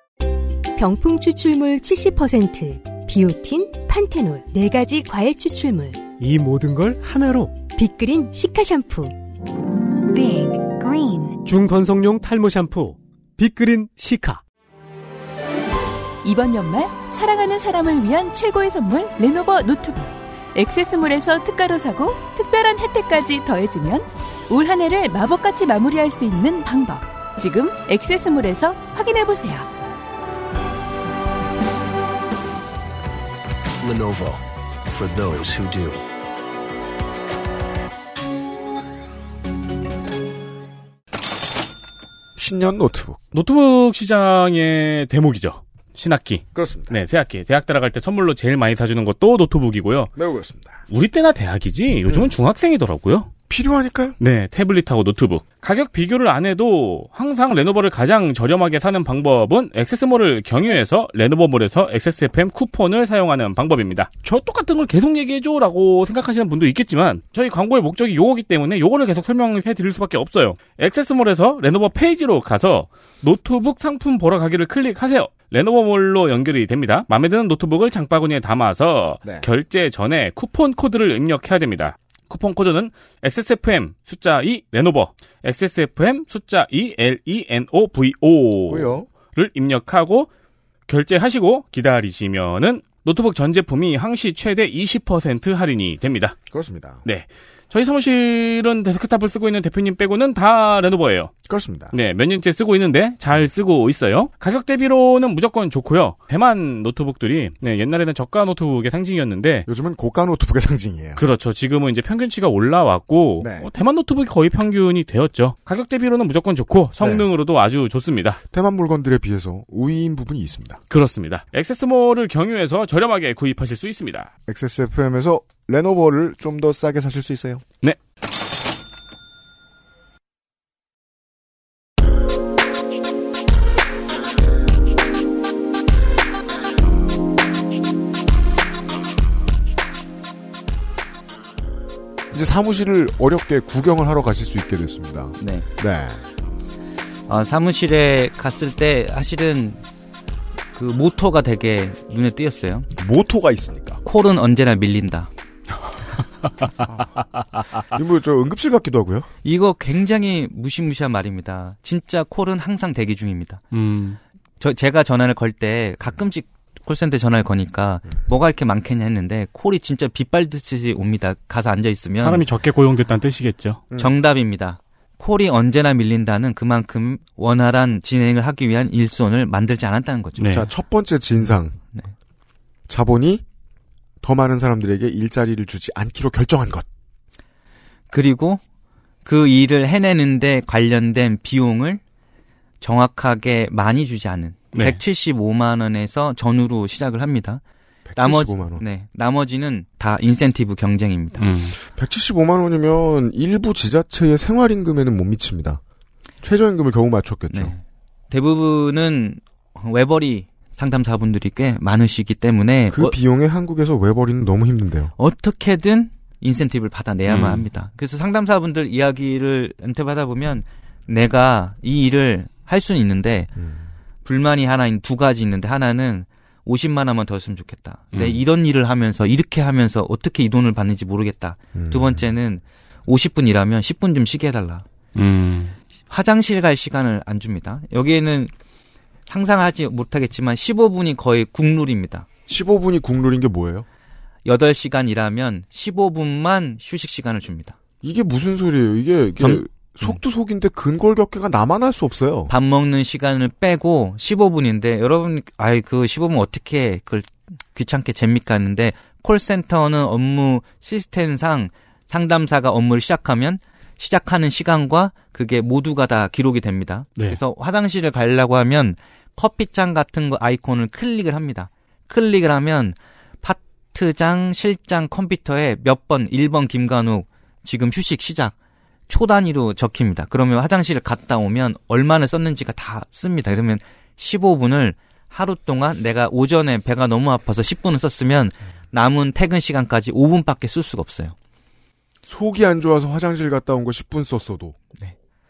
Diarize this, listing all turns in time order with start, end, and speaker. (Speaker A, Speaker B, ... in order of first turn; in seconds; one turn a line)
Speaker A: 0.8-6.1
Speaker B: 6.2-7.6
Speaker A: 7.6-9.1
Speaker A: 10.1-11.4
Speaker B: 11.4-14.4
Speaker C: 16.2-29.7
Speaker D: 33.8-36.0
Speaker E: 42.4-43.2
Speaker F: 43.3-50.1
Speaker E: 46.5-47.0
Speaker E: 50.1-50.8
Speaker F: 50.9-53.3
Speaker E: 53.5-54.2
Speaker F: 54.2-90.3
Speaker E: 88.7-89.1
Speaker F: 90.9-96.3
Speaker E: 96.5-97.0
Speaker F: 97.0-101.3
Speaker E: 101.5-101.9
Speaker F: 101.9-109.7
Speaker E: 109.7-111.2
Speaker F: 111.2-118.4
Speaker E: 113.4-113.7
Speaker E: 117.0-117.2
Speaker E: 118.5-120.8
Speaker F: 120.9-124.3
Speaker E: 124.5-127.6
Speaker E: 142.3-146.2
Speaker G: 145.4-145.7
Speaker G: 147.3-149.8
Speaker G: 150.7-152.9
Speaker E: 153.0-154.0
Speaker G: 154.0-155.3
Speaker E: 156.8-157.2
Speaker E: 157.9-159.3
Speaker G: 159.4-163.6
Speaker F: 163.7-164.2
Speaker G: 164.6-172.4
Speaker F: 172.2-173.8
Speaker G: 174.0-180.6
Speaker F: 180.4-180.7
Speaker E: 180.4-181.8
Speaker E: 182.9-183.4
Speaker E: 184.2-186.9
Speaker G: 188.1-188.6
Speaker G: 189.2-192.0
Speaker G: 192.8-197.6
Speaker F: 194.7-195.0
Speaker E: 198.1-198.8
Speaker G: 198.2-201.4
Speaker F: 201.4-201.8
Speaker E: 201.8-205.8
Speaker E: 206.4-207.7
Speaker G: 207.5-213.2
Speaker E: 212.9-215.1
Speaker G: 215.2-223.5
Speaker F: 217.3-217.7
Speaker E: 223.6-223.9
Speaker G: 224.2-234.8
Speaker E: 231.7-232.2
Speaker F: 235.1-235.8
Speaker G: 236.1-238.5
Speaker G: 239.3-242.3
Speaker E: 242.5-243.8
Speaker G: 244.4-247.8
Speaker E: 248.0-252.5
Speaker G: 249.4-250.1
Speaker G: 252.5-278.5
Speaker G: 279.1-291.3
Speaker E: 292.3-294.8